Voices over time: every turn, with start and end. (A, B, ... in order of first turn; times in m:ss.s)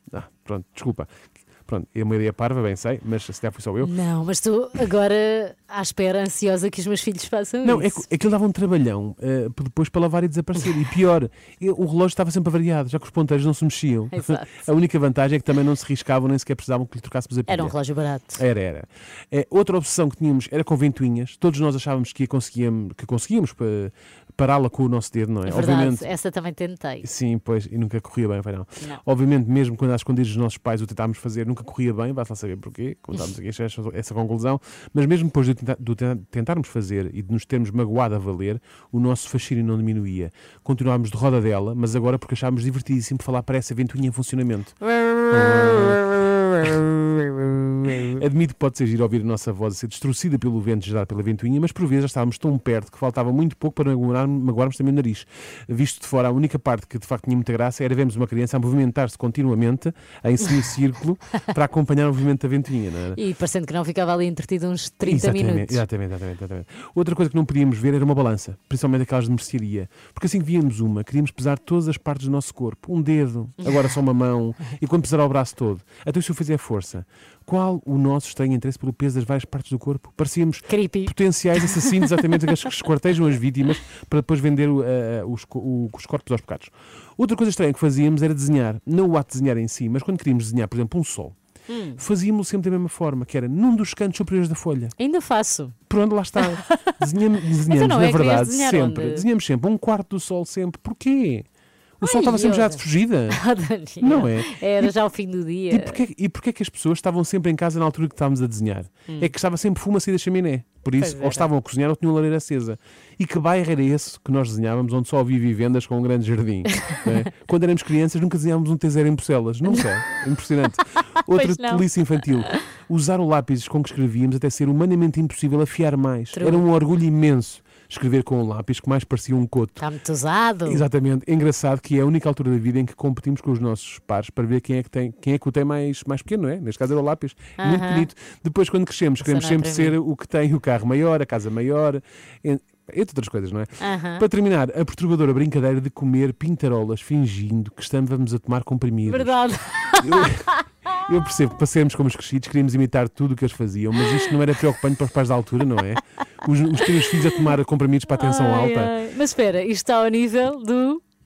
0:00.1-0:01.1 A
0:01.6-0:03.9 A
0:03.8-0:08.0 B
0:07.6-0:17.8 A
0:14.1-0:14.6 B
0:17.5-0:18.4 B
0:18.3-0:26.1 A
0:25.4-0:27.0 B
0:27.0-1:03.2 A
1:03.1-1:05.8 B
1:05.0-1:31.3 A
1:20.7-1:22.2 B
1:31.7-1:32.0 B
1:32.0-1:35.0 A
1:35.0-1:35.8 B
1:35.9-1:41.4 A
1:36.4-1:36.9 B
1:37.5-1:39.3 B
1:42.0-1:43.4 A
1:42.0-1:46.0 B
1:44.0-1:44.9 A
1:45.7-2:09.8 A
1:49.1-1:49.3 B
1:51.0-1:51.5 B
2:01.2-2:01.9 B
2:06.3-2:06.6 B
2:09.8-2:10.8 B
2:10.6-2:29.4 A
2:17.6-2:18.1 B
2:19.2-2:20.0 B
2:23.8-2:24.2 B
2:29.0-2:30.6 B
2:30.0-2:38.9 A
2:36.8-2:37.1 B
2:38.1-2:41.0 B